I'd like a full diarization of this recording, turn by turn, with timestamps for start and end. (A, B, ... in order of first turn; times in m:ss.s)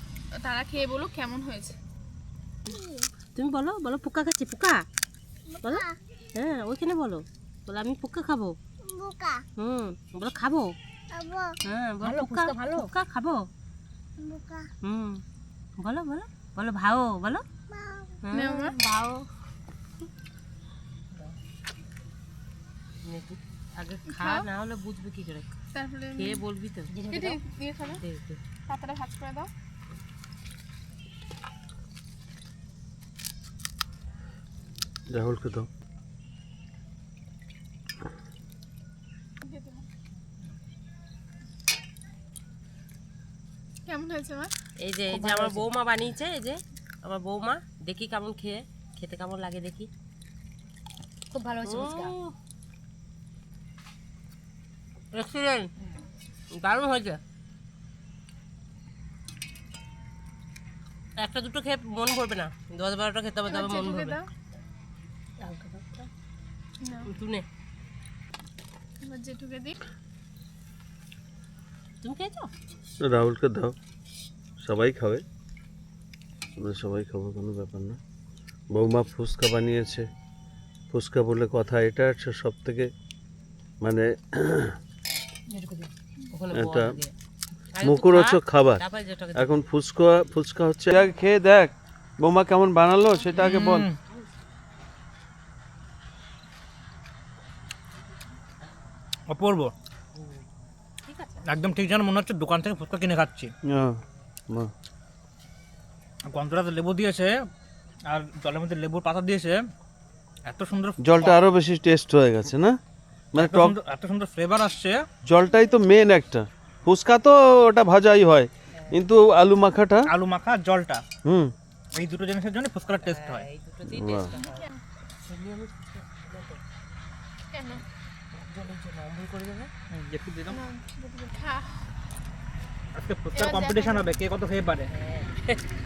0:00.4-0:01.8 A
0:02.7-0:04.8 B
0:05.5-0:05.9 C
0:05.6-0:08.5 B
0:08.9-0:09.4 C
0:09.6-0:10.7 B
0:11.1-0:11.5 C
0:11.6-0:13.5 B
0:12.0-0:12.9 D
0:14.2-0:14.7 C
0:14.8-0:15.2 B
0:15.8-0:17.4 B
0:17.8-0:18.1 C
0:18.2-0:19.2 B
0:18.3-0:18.7 A
0:23.0-0:25.5 B
0:24.1-0:24.4 A
0:25.7-0:26.4 A
0:26.2-0:26.9 B
0:26.9-0:27.4 D
0:27.1-0:28.0 A
0:27.8-0:28.4 B
0:28.7-0:29.5 A
0:35.1-0:35.7 E
0:39.4-0:39.9 A
0:43.8-0:44.5 A
0:44.8-0:49.9 B
0:45.1-0:45.7 D
0:51.3-0:52.1 D
0:51.6-0:52.3 B
0:55.1-0:55.7 B
0:56.5-0:57.2 B
1:01.2-1:04.2 B
1:03.4-1:04.3 A
1:05.4-1:06.1 B
1:06.8-1:07.1 A
1:07.0-1:07.4 B
1:09.0-1:09.8 A
1:12.0-1:12.5 B
1:13.0-1:13.7 E
1:14.6-1:15.2 E
1:16.6-1:18.0 E
1:18.7-1:20.0 E
1:20.9-1:22.9 E
1:23.8-1:24.7 E
1:25.5-1:25.9 D
1:26.3-1:27.1 B
1:26.5-1:26.9 E
1:27.7-1:29.6 B
1:27.8-1:28.8 E
1:29.3-1:33.8 E
1:33.4-1:34.0 F
1:39.3-1:39.7 F
1:40.1-1:40.4 B
1:41.0-1:41.4 B
1:41.4-1:43.5 F
1:43.6-1:44.7 E
1:46.3-1:47.3 F
1:48.1-1:49.6 F
1:50.4-1:51.4 F
1:51.0-1:52.8 E
1:53.3-1:53.8 E
1:53.4-1:55.0 F
1:55.2-2:00.1 E
2:00.1-2:01.0 F
2:01.2-2:01.5 E
2:01.9-2:03.5 F
2:03.0-2:04.7 B
2:03.9-2:04.3 E
2:04.4-2:04.7 A
2:05.2-2:06.6 B
2:07.5-2:07.8 A
2:08.4-2:09.7 B
2:09.9-2:10.6 F
2:10.5-2:11.9 A
2:13.0-2:14.9 F
2:13.3-2:14.1 A
2:14.9-2:15.6 B